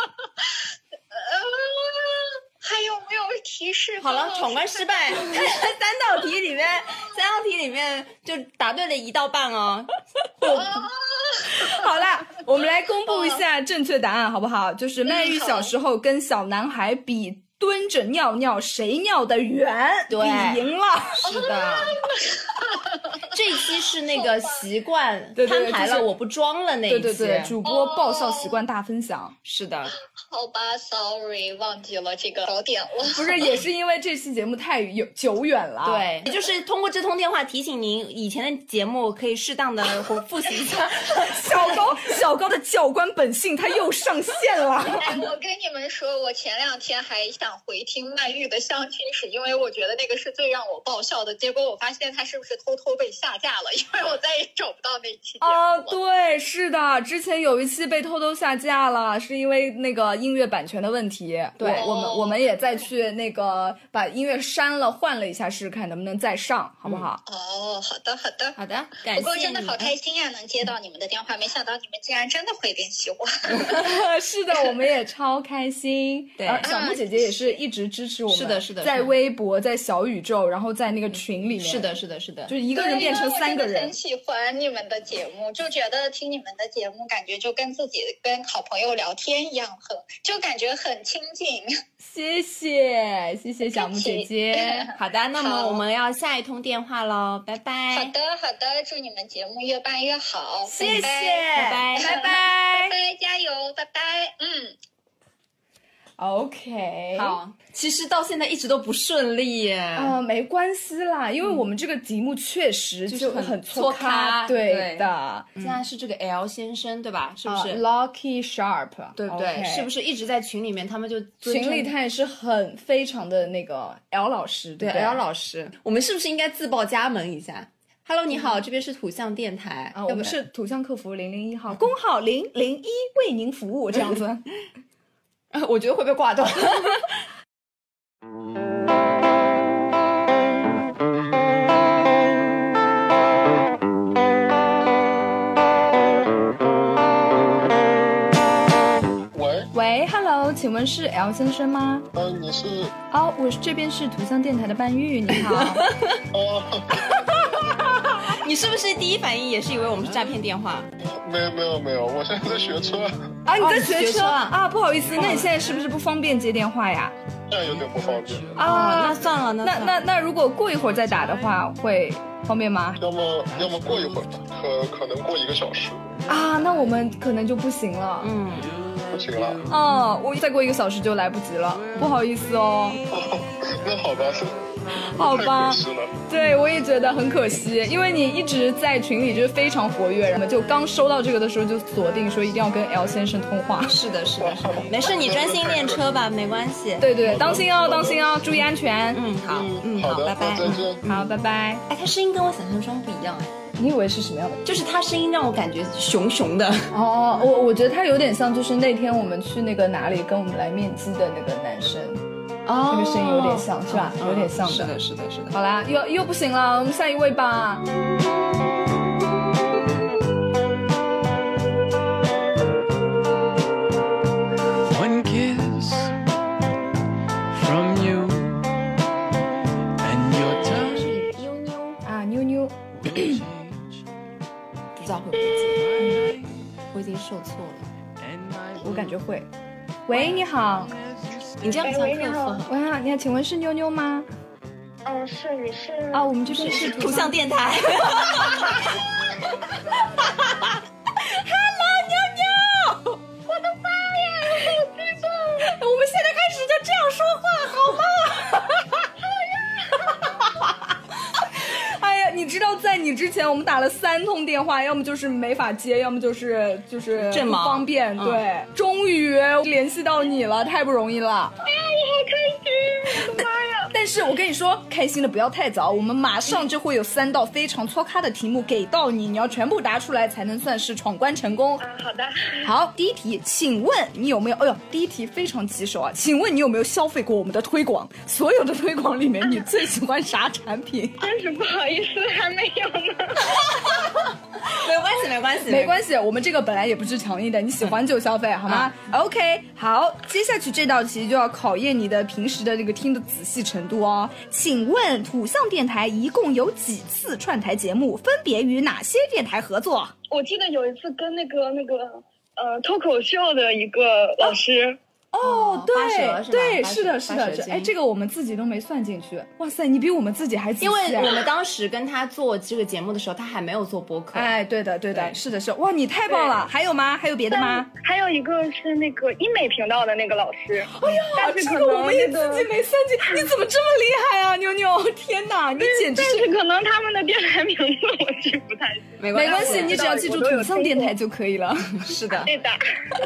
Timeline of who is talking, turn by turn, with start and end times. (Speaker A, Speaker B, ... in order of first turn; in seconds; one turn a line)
Speaker A: 1.1-5.3
Speaker B: 4.0-9.9
Speaker A: 10.4-11.8
Speaker C: 11.6-21.4
Speaker A: 13.1-13.4
Speaker A: 15.1-15.7
Speaker B: 20.1-20.6
Speaker B: 21.2-21.9
Speaker A: 21.2-22.8
Speaker B: 23.3-27.6
Speaker A: 23.6-24.6
Speaker C: 25.4-26.1
Speaker C: 26.9-29.4
Speaker A: 27.6-28.6
Speaker B: 29.4-29.9
Speaker A: 30.3-33.4
Speaker C: 33.1-36.1
Speaker B: 35.8-41.8
Speaker C: 41.3-45.2
Speaker A: 45.0-56.0
Speaker C: 55.4-67.2
Speaker B: 61.6-61.9
Speaker A: 61.7-62.4
Speaker A: 67.3-68.6
Speaker B: 68.6-69.9
Speaker A: 69.1-73.9
Speaker C: 73.7-81.9
Speaker B: 76.4-76.7
Speaker A: 76.6-77.6
Speaker B: 78.3-79.1
Speaker B: 81.6-82.6
Speaker C: 82.5-84.0
Speaker A: 82.7-91.8
Speaker C: 92.0-94.9
Speaker A: 93.7-95.8
Speaker B: 94.9-98.1
Speaker A: 97.9-104.8
Speaker C: 100.7-103.0
Speaker B: 100.8-102.2
Speaker C: 106.2-107.4
Speaker B: 107.2-110.1
Speaker C: 110.0-115.8
Speaker B: 113.1-117.8
Speaker C: 117.5-119.9
Speaker B: 119.2-121.9
Speaker C: 121.4-125.2
Speaker B: 124.8-130.3
Speaker C: 129.9-134.4
Speaker B: 135.5-137.1
Speaker D: 149.3-149.6
Speaker C: 149.7-152.1
Speaker D: 152.2-152.9
Speaker C: 153.1-155.9
Speaker B: 155.5-156.2
Speaker D: 156.3-156.7
Speaker B: 158.3-160.9
Speaker D: 161.2-163.1
Speaker C: 163.5-167.1
Speaker B: 163.6-164.6
Speaker B: 165.2-165.5
Speaker D: 167.5-168.5
Speaker C: 168.6-173.0
Speaker B: 168.6-170.0
Speaker D: 173.0-176.0
Speaker C: 176.3-178.3
Speaker B: 178.2-178.7
Speaker D: 179.1-179.6
Speaker C: 179.7-183.0
Speaker D: 183.1-184.5
Speaker C: 185.2-194.0
Speaker D: 185.2-186.1
Speaker B: 193.9-197.6
Speaker D: 194.4-196.0
Speaker C: 197.0-199.2
Speaker B: 199.1-201.3
Speaker D: 200.0-201.0
Speaker C: 201.1-201.8
Speaker B: 201.9-203.5
Speaker C: 203.8-204.6
Speaker B: 204.6-206.9
Speaker C: 206.9-212.2
Speaker B: 212.7-215.6
Speaker C: 212.9-214.9
Speaker C: 215.5-217.8
Speaker E: 224.8-226.2
Speaker E: 227.5-228.7
Speaker E: 230.0-231.1
Speaker B: 230.7-232.0
Speaker C: 232.0-233.3
Speaker E: 233.0-234.0
Speaker B: 235.0-235.8
Speaker E: 235.8-236.5
Speaker C: 236.0-236.3
Speaker B: 236.9-237.9
Speaker E: 238.2-238.9
Speaker C: 238.8-239.5
Speaker C: 240.1-240.9
Speaker E: 240.9-241.5
Speaker B: 241.6-242.7
Speaker F: 241.8-242.6
Speaker C: 242.7-244.3
Speaker F: 245.1-246.8
Speaker C: 246.1-247.4
Speaker B: 246.6-248.8
Speaker C: 251.2-253.2
Speaker F: 253.5-255.7
Speaker C: 255.7-259.1
Speaker C: 260.4-260.9
Speaker C: 261.4-271.5
Speaker B: 267.2-268.4
Speaker F: 271.6-273.9
Speaker C: 273.9-281.8
Speaker F: 281.8-282.7
Speaker C: 282.6-291.2
Speaker F: 291.2-293.4
Speaker B: 294.6-296.0
Speaker C: 295.7-310.1
Speaker F: 310.3-315.0
Speaker C: 315.3-321.5
Speaker B: 315.4-317.9
Speaker B: 320.8-324.5
Speaker C: 324.3-327.9
Speaker F: 326.3-326.6
Speaker F: 327.5-332.7
Speaker C: 330.9-336.5
Speaker F: 335.8-341.1
Speaker B: 339.2-340.0
Speaker C: 339.3-342.0
Speaker B: 342.0-342.5
Speaker F: 342.5-342.8